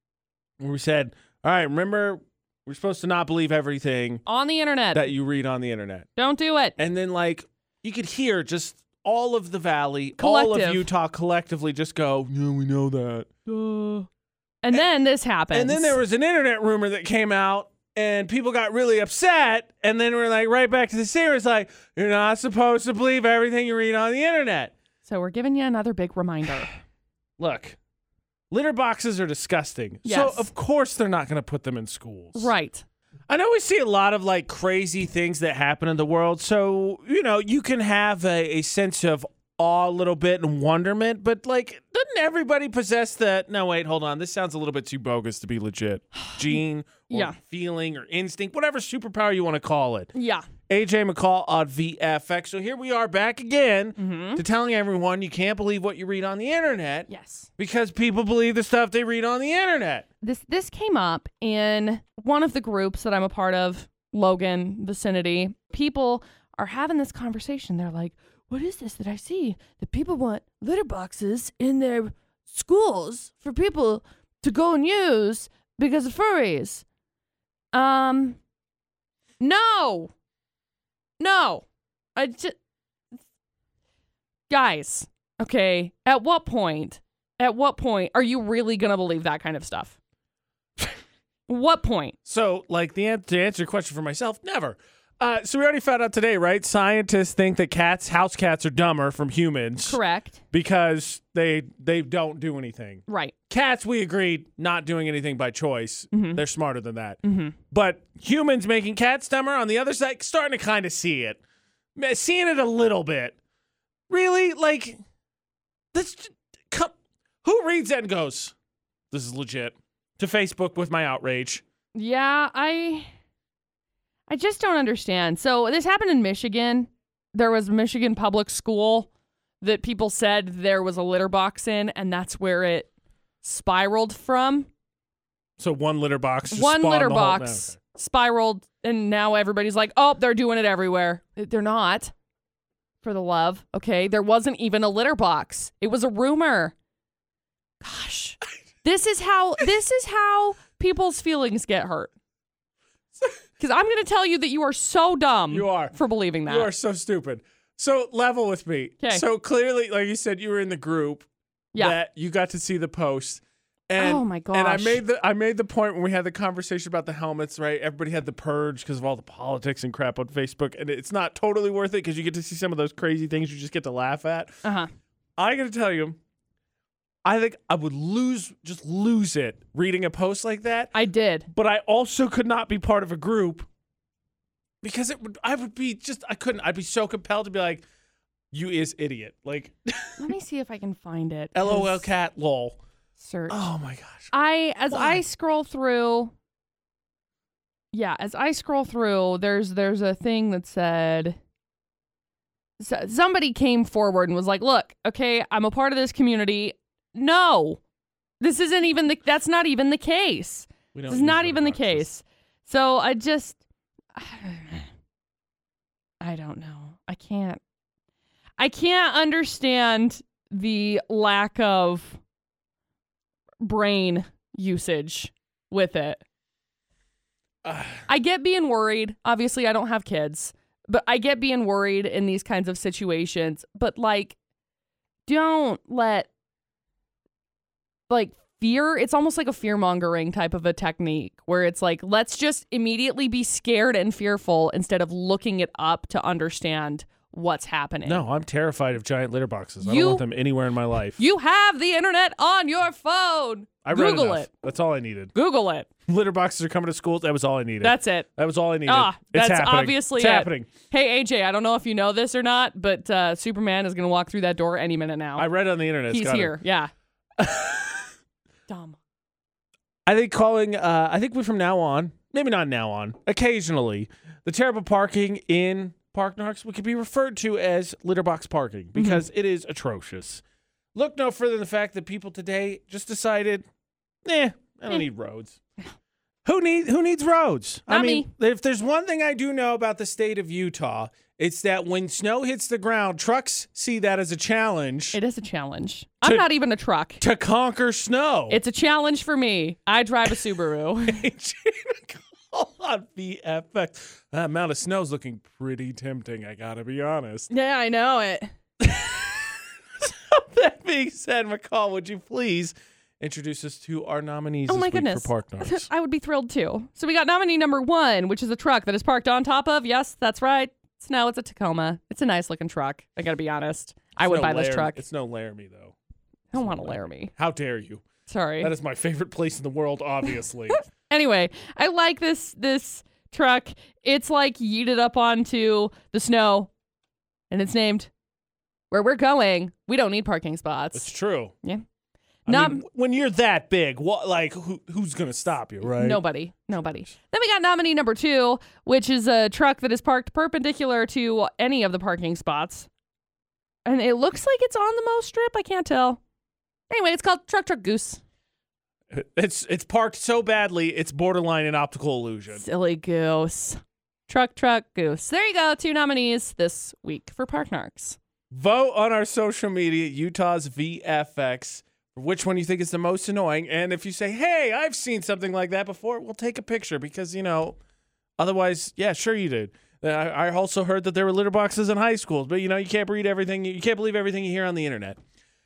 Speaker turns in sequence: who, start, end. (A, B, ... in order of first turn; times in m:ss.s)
0:00.6-0:04.2 A
0:04.3-0:05.1 B
0:04.9-0:06.1 A
0:06.2-0:06.8 B
0:06.8-0:13.4 A
0:10.2-0:10.9 B
0:13.5-0:14.1 B
0:14.6-0:16.0 B
0:15.5-0:24.7 A
0:25.0-0:26.7 B
0:27.4-0:27.8 A
0:28.5-0:32.5 A
0:30.0-0:30.5 B
0:32.4-0:32.9 B
0:33.3-0:50.1 A
0:47.1-0:47.4 B
0:50.1-0:50.5 B
0:50.7-1:00.1 A
0:54.0-0:54.4 B
0:57.1-0:57.5 B
1:00.2-1:16.8 B
1:17.7-1:18.4 B
1:19.4-1:20.1 B
1:21.2-1:22.6 B
1:24.5-1:30.0 B
1:31.5-1:32.2 B
1:32.2-1:40.0 A
1:39.9-1:40.4 B
1:40.5-1:51.4 A
1:43.1-1:43.3 B
1:46.1-1:46.4 B
1:47.2-1:47.6 B
1:52.0-1:53.4 A
1:54.1-1:55.0 A
1:55.9-1:58.6 A
1:59.1-2:01.6 A
2:01.9-2:03.1 B
2:04.3-2:09.1 B
2:09.6-2:12.9 B
2:13.4-2:14.7 B
2:15.6-2:17.8 A
2:16.5-2:22.1 B
2:23.0-2:26.8 B
2:27.8-2:32.1 B
2:33.6-2:36.7 B
2:35.5-2:36.0 A
2:36.5-2:54.6 A
2:44.0-2:45.0 B
2:54.6-2:54.9 B
2:55.4-2:56.2 A
2:57.2-3:00.9 A
3:00.9-3:01.5 B
3:01.5-3:03.7 A
3:04.8-3:07.8 A
3:08.5-3:10.3 A
3:10.2-3:12.1 B
3:11.5-3:12.8 A
3:13.2-3:13.7 B
3:13.5-3:14.3 A
3:14.3-3:16.3 B
3:14.9-3:15.2 A
3:17.9-3:21.4 B
3:22.8-3:27.8 B
3:28.4-3:33.6 B
3:30.9-3:32.1 A
3:34.1-3:34.9 B
3:36.2-3:37.6 B
3:38.6-3:42.2 B
3:43.6-3:46.2 B
3:47.6-3:48.1 A
3:48.1-3:54.4 B
3:55.3-3:56.3 B
3:58.1-4:08.2 B
4:08.0-4:11.2 A
4:09.8-4:10.2 B
4:11.2-4:14.5 B
4:13.8-4:15.3 A
4:15.3-4:15.9 B
4:16.1-4:20.7 A
4:17.8-4:18.3 B
4:18.8-4:25.5 B
4:25.4-4:26.6 A
4:26.1-4:26.9 B
4:27.4-4:28.1 A
4:28.7-4:29.0 B
4:30.1-4:40.4 A
4:39.0-4:39.2 B
4:41.0-4:43.6 A
4:44.2-4:45.6 A
4:46.4-4:55.2 A
4:47.9-4:48.3 B
4:55.1-4:57.2 B
4:57.2-4:58.6 A
4:58.5-5:01.3 B
5:01.0-5:07.5 A
5:07.5-5:08.5 B
5:08.8-5:15.9 A
5:14.7-5:25.0 B
5:24.2-5:26.0 A
5:26.5-5:27.3 B
5:26.6-5:28.1 A
5:28.3-5:28.7 B
5:28.6-5:30.9 A
5:30.9-5:36.7 B
5:37.5-5:38.1 B
5:38.9-5:41.1 B
5:40.9-5:41.5 A
5:42.5-5:42.8 B
5:42.5-5:46.2 A
5:45.8-5:52.9 B
5:53.8-5:56.2 B
5:56.9-5:58.2 B
5:59.1-6:02.6 A
6:02.5-6:08.2 B
6:08.5-6:17.8 A
6:18.4-6:25.2 A